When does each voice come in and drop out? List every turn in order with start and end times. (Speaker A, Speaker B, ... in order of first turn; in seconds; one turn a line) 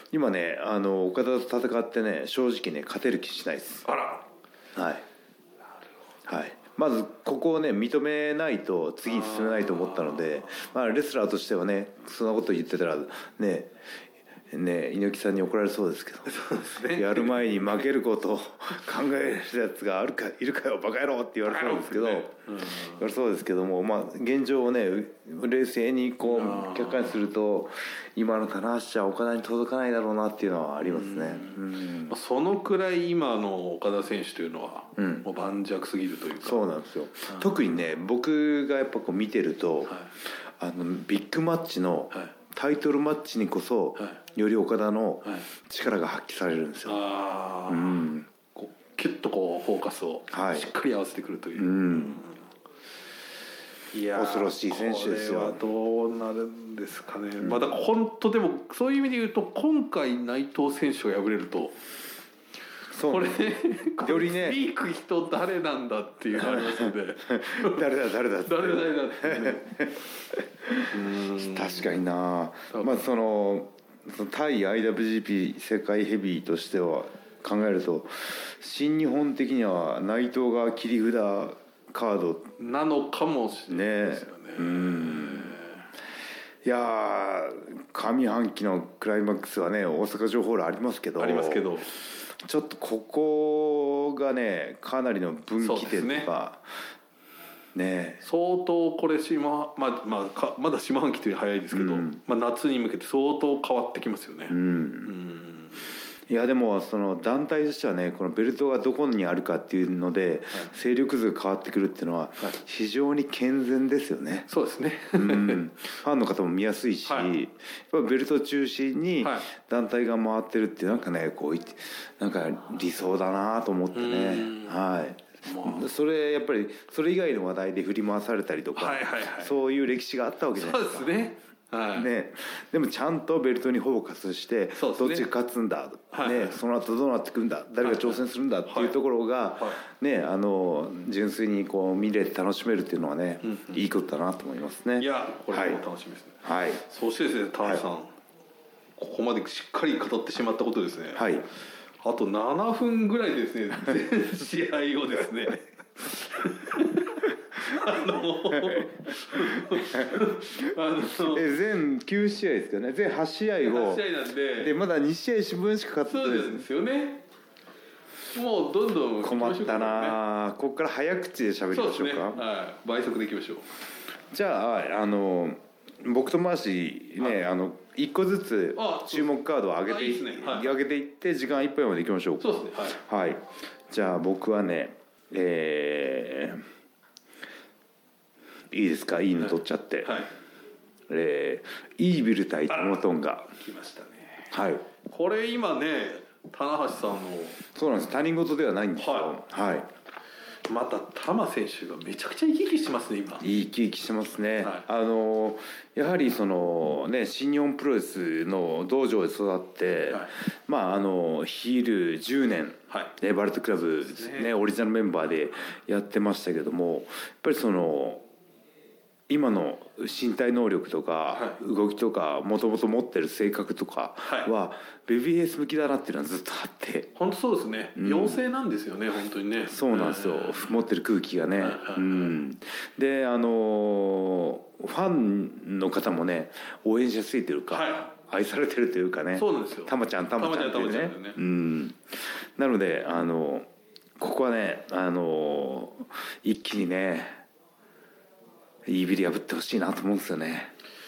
Speaker A: 0.1-3.9
Speaker B: 3.9-4.2
Speaker A: 4.7-5.0
Speaker A: 6.3-13.7
Speaker B: 9.1-10.7
Speaker A: 14.5-32.1
Speaker B: 16.3-17.6
Speaker B: 21.4-23.0
Speaker B: 26.2-27.2
Speaker B: 30.8-36.7
Speaker A: 35.0-35.2
Speaker A: 36.4-40.0
Speaker B: 37.3-37.6
Speaker A: 40.6-47.0
Speaker B: 46.9-52.4
Speaker A: 47.7-48.3
Speaker A: 50.3-50.7
Speaker A: 51.5-52.2
Speaker B: 53.9-61.8
Speaker A: 54.1-55.6
Speaker A: 62.9-63.4
Speaker B: 63.0-67.9
Speaker A: 64.0-64.6
Speaker A: 66.4-82.5
Speaker B: 68.4-69.7
Speaker B: 70.9-71.9
Speaker B: 72.7-73.0
Speaker B: 82.6-85.8
Speaker A: 83.7-85.5
Speaker A: 86.6-91.7
Speaker B: 91.2-91.9
Speaker A: 92.3-96.7
Speaker B: 95.6-96.3
Speaker A: 97.7-98.2
Speaker B: 98.2-105.8
Speaker A: 101.7-102.2
Speaker A: 104.5-105.1
Speaker A: 106.3-114.5
Speaker B: 114.5-115.7
Speaker A: 115.1-131.1
Speaker B: 117.0-117.3
Speaker B: 119.2-119.5
Speaker B: 123.9-124.8
Speaker B: 125.4-125.9
Speaker B: 128.8-129.5
Speaker B: 130.6-132.1
Speaker A: 131.9-145.8
Speaker B: 134.8-135.3
Speaker B: 136.1-136.6
Speaker B: 137.8-138.9
Speaker B: 143.4-143.8
Speaker B: 145.0-148.1
Speaker A: 146.4-146.8
Speaker B: 149.0-151.3
Speaker A: 151.2-151.4
Speaker B: 152.0-161.5
Speaker A: 158.5-164.0
Speaker B: 163.7-164.7
Speaker A: 164.6-166.7
Speaker B: 166.1-167.2
Speaker B: 168.3-170.2
Speaker A: 169.2-172.4
Speaker B: 171.7-173.7
Speaker A: 174.3-186.6
Speaker B: 178.8-179.3
Speaker B: 179.8-180.8
Speaker B: 182.4-183.0
Speaker A: 188.7-190.2
Speaker B: 189.4-190.3
Speaker A: 191.1-193.5
Speaker B: 192.7-193.0
Speaker B: 193.5-197.6
Speaker A: 194.5-194.8
Speaker A: 197.7-199.9
Speaker B: 199.0-199.3
Speaker B: 200.7-203.5
Speaker A: 203.4-218.2
Speaker B: 214.1-214.5
Speaker A: 219.3-227.1
Speaker B: 221.3-221.6
Speaker B: 224.2-224.5
Speaker B: 227.1-230.7
Speaker A: 227.9-228.4
Speaker A: 229.7-243.7
Speaker B: 231.6-232.4
Speaker B: 237.7-238.1
Speaker B: 239.3-241.4
Speaker A: 244.2-247.4
Speaker A: 248.8-250.7